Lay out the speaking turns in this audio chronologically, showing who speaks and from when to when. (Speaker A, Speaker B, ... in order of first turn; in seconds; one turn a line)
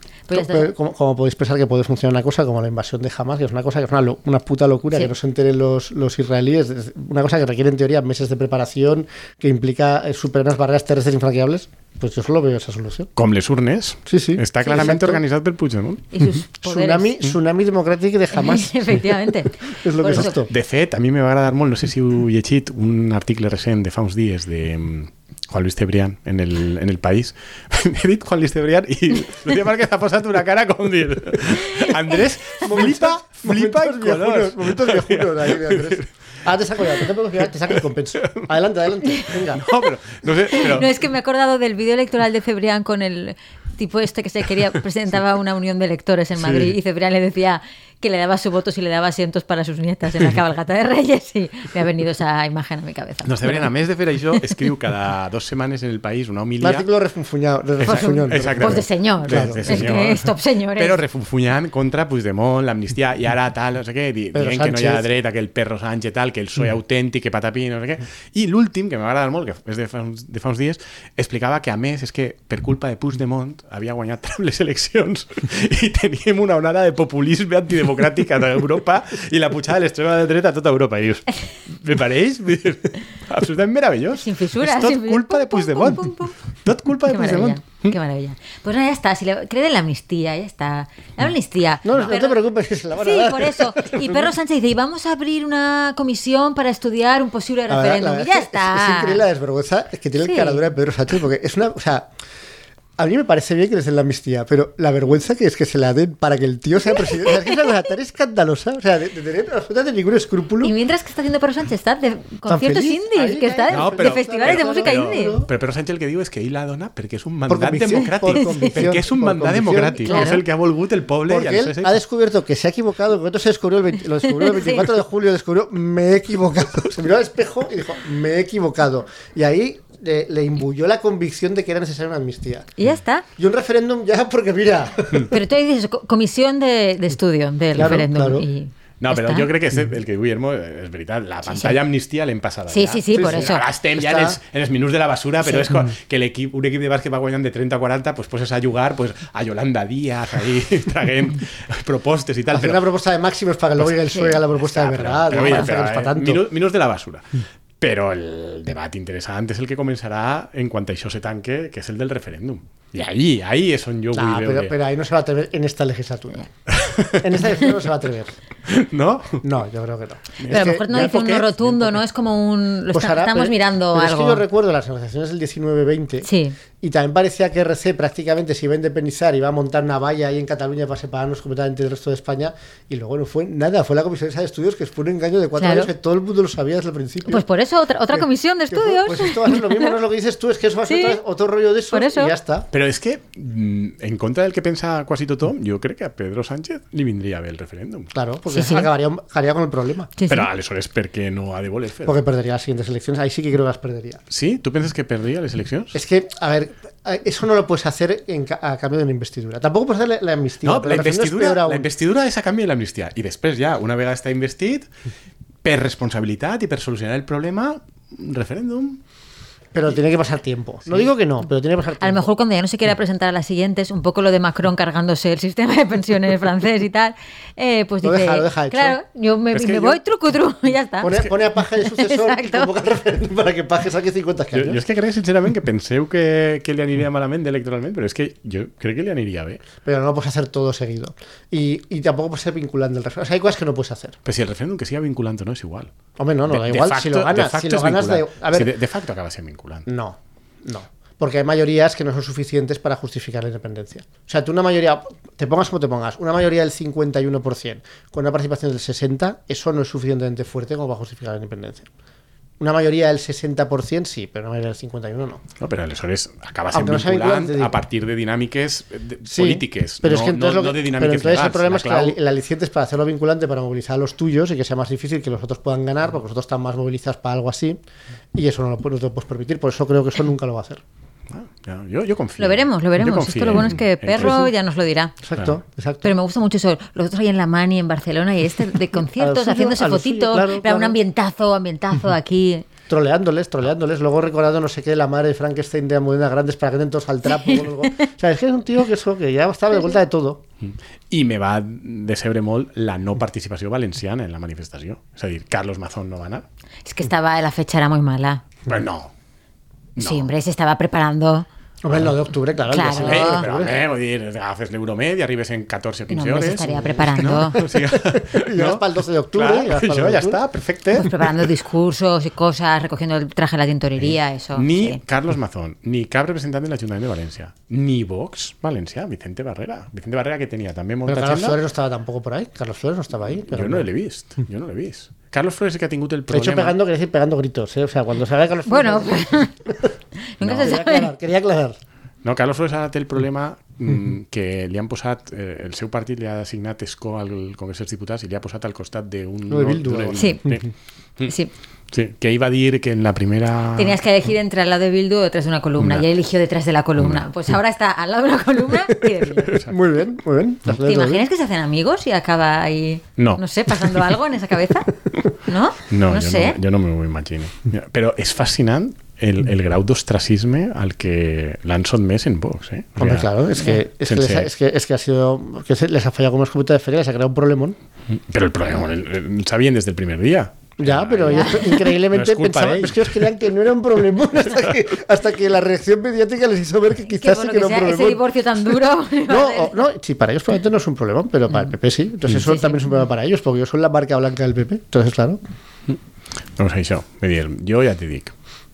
Speaker A: 0.3-0.7
Speaker B: 0.3-13.1
Speaker C: 13.2-16.1
Speaker B: 14.1-15.2
Speaker A: 16.1-17.1
Speaker B: 16.6-19.1
Speaker A: 18.3-20.4
Speaker B: 19.6-20.5
Speaker C: 20.1-36.1
Speaker B: 32.6-39.6
Speaker C: 38.2-38.5
Speaker C: 39.5-41.0
Speaker A: 40.5-53.7
Speaker C: 46.4-46.7
Speaker C: 53.2-56.9
Speaker B: 56.6-59.9
Speaker C: 57.8-88.0
Speaker A: 57.8-61.0
Speaker B: 64.3-65.0
Speaker A: 84.1-86.3
Speaker A: 87.0-92.4
Speaker B: 91.8-94.3
Speaker A: 93.0-99.2
Speaker B: 97.7-102.1
Speaker A: 100.2-100.6
Speaker B: 103.0-110.7
Speaker A: 107.1-107.6
Speaker A: 110.6-115.4
Speaker B: 112.5-115.5
Speaker C: 113.7-122.0
Speaker B: 117.5-120.4
Speaker A: 118.0-118.8
Speaker A: 120.0-120.4
Speaker B: 121.3-132.7
Speaker A: 124.3-124.9
Speaker A: 132.8-133.2
Speaker B: 133.4-135.3
Speaker A: 135.3-139.5
Speaker B: 137.7-138.4
Speaker C: 139.0-152.8
Speaker A: 141.5-141.7
Speaker A: 142.7-143.6
Speaker B: 143.1-144.4
Speaker B: 152.5-156.4
Speaker C: 153.8-164.7
Speaker A: 155.4-155.6
Speaker B: 164.1-166.5
Speaker C: 166.7-167.7
Speaker B: 167.2-168.3
Speaker C: 168.7-169.4
Speaker B: 169.4-171.8
Speaker C: 170.4-171.3
Speaker A: 170.5-174.4
Speaker B: 172.9-176.3
Speaker A: 176.2-176.6
Speaker B: 176.8-187.4
Speaker A: 185.6-185.9
Speaker A: 187.2-189.9
Speaker B: 188.1-192.7
Speaker A: 190.9-191.2
Speaker A: 191.9-192.3
Speaker C: 192.7-198.1
Speaker B: 198.1-200.1
Speaker A: 198.5-198.9
Speaker A: 200.2-200.5
Speaker C: 200.3-202.2
Speaker B: 202.0-204.2
Speaker C: 204.3-206.0
Speaker B: 205.9-211.9
Speaker C: 210.6-214.9
Speaker C: 215.6-219.0
Speaker B: 219.7-222.2
Speaker A: 222.0-232.7
Speaker B: 228.0-229.0
Speaker C: 229.5-229.9
Speaker B: 231.0-234.8
Speaker C: 234.5-239.6
Speaker B: 239.8-244.2
Speaker C: 244.2-245.9
Speaker B: 246.2-248.7
Speaker C: 246.5-249.8
Speaker B: 249.9-261.9
Speaker B: 262.6-265.4
Speaker C: 265.6-272.2
Speaker B: 266.7-267.8
Speaker B: 269.3-277.8
Speaker B: 278.3-280.8
Speaker C: 281.3-284.5
Speaker A: 282.4-285.1
Speaker B: 285.2-286.1
Speaker A: 286.0-292.6
Speaker B: 289.2-291.0
Speaker B: 292.9-300.4
Speaker A: 297.2-298.1
Speaker C: 300.6-306.4
Speaker A: 306.8-308.4
Speaker C: 308.7-309.1
Speaker C: 309.9-310.3
Speaker A: 310.0-311.4
Speaker B: 311.8-313.8
Speaker A: 312.7-313.5
Speaker C: 312.9-321.4
Speaker A: 316.1-317.6
Speaker B: 316.7-320.4
Speaker A: 320.9-325.0
Speaker C: 324.5-331.6
Speaker B: 331.1-333.9
Speaker C: 333.5-336.8
Speaker B: 336.3-339.9
Speaker A: 338.7-339.5
Speaker A: 340.4-341.1
Speaker C: 340.4-340.7
Speaker B: 340.6-341.8
Speaker C: 342.2-350.7
Speaker B: 349.5-350.6
Speaker A: 350.1-350.4
Speaker A: 351.3-351.5
Speaker C: 351.9-354.0
Speaker A: 353.8-359.6
Speaker C: 355.8-356.1
Speaker C: 357.0-357.2
Speaker C: 359.5-359.7
Speaker B: 359.6-361.3
Speaker A: 360.8-366.6
Speaker C: 365.9-373.3
Speaker B: 373.0-377.8
Speaker C: 374.1-374.5
Speaker C: 378.1-383.3
Speaker B: 380.8-388.2
Speaker A: 381.3-381.9
Speaker A: 387.1-389.8
Speaker B: 389.2-395.4
Speaker A: 392.3-393.0
Speaker C: 396.6-398.3